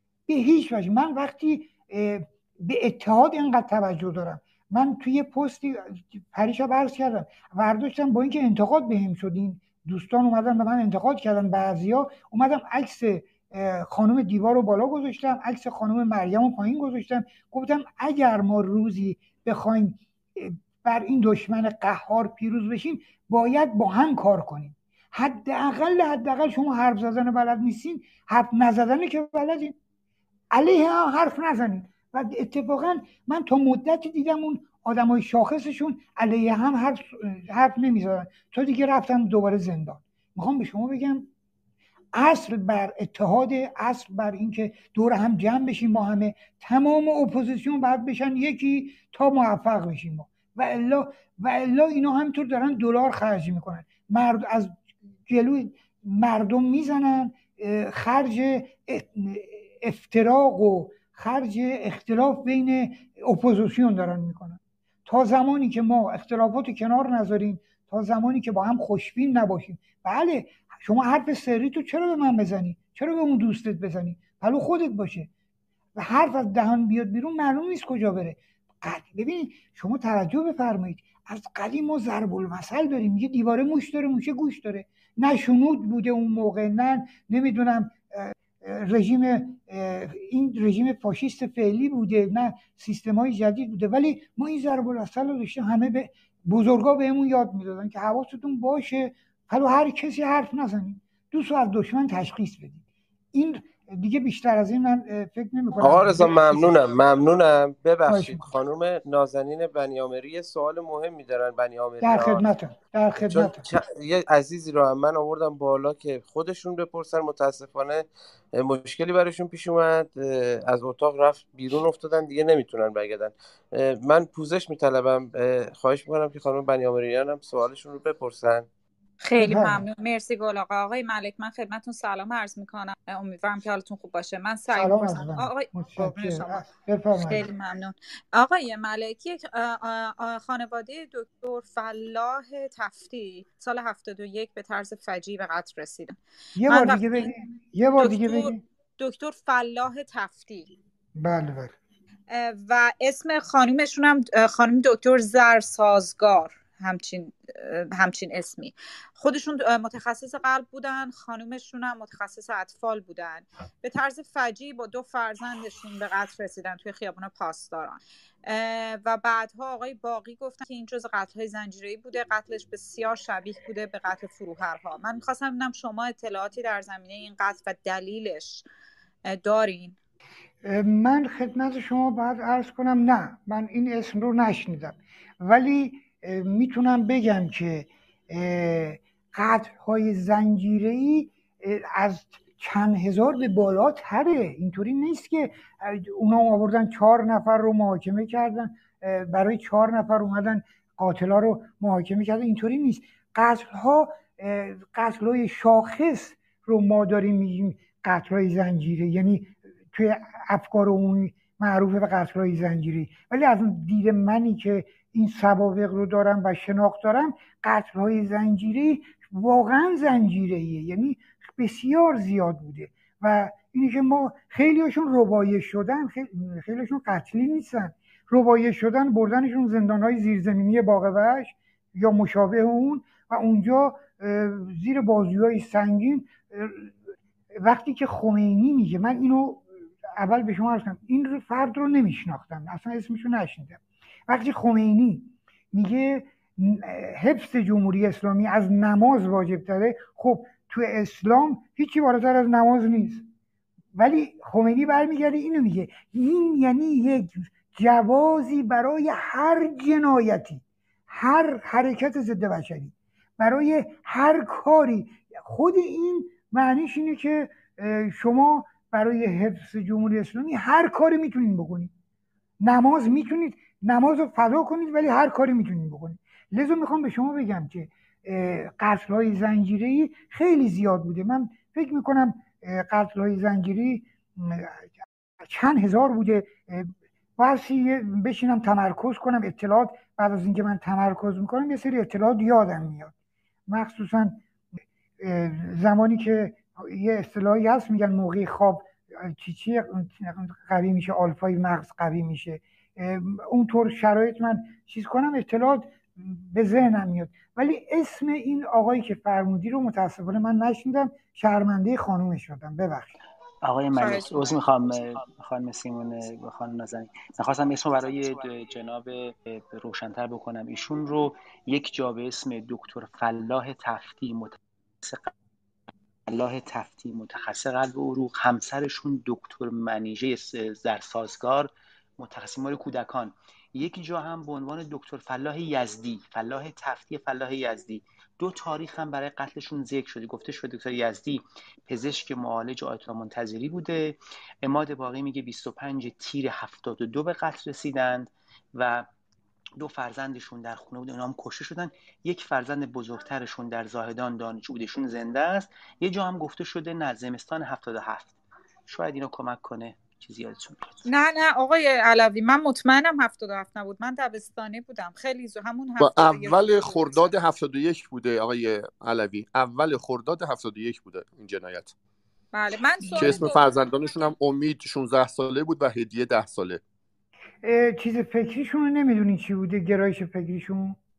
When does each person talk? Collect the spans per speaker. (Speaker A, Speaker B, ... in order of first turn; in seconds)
Speaker A: 0.3-29.8, 30.5-41.3, 42.1-75.3, 76.0-102.8, 103.3-106.9, 108.1-108.5, 112.0-113.7, 129.4-129.8, 134.7-137.5, 146.6-148.6, 151.2-151.8, 180.6-237.0, 237.5-253.2, 253.9-271.9, 272.6-293.1, 293.7-294.4, 295.2-313.1, 373.1-373.4, 377.6-381.0
Speaker B: 105.8-112.5, 113.1-128.7
Speaker C: 129.2-136.7, 137.2-146.2, 146.7-147.3, 148.0-150.7, 152.3-178.6, 179.3-180.0, 314.0-314.6, 361.1-367.3, 372.5-374.3
Speaker D: 313.6-325.3, 326.3-349.1, 349.8-360.9
Speaker E: 366.0-371.9, 373.1-376.8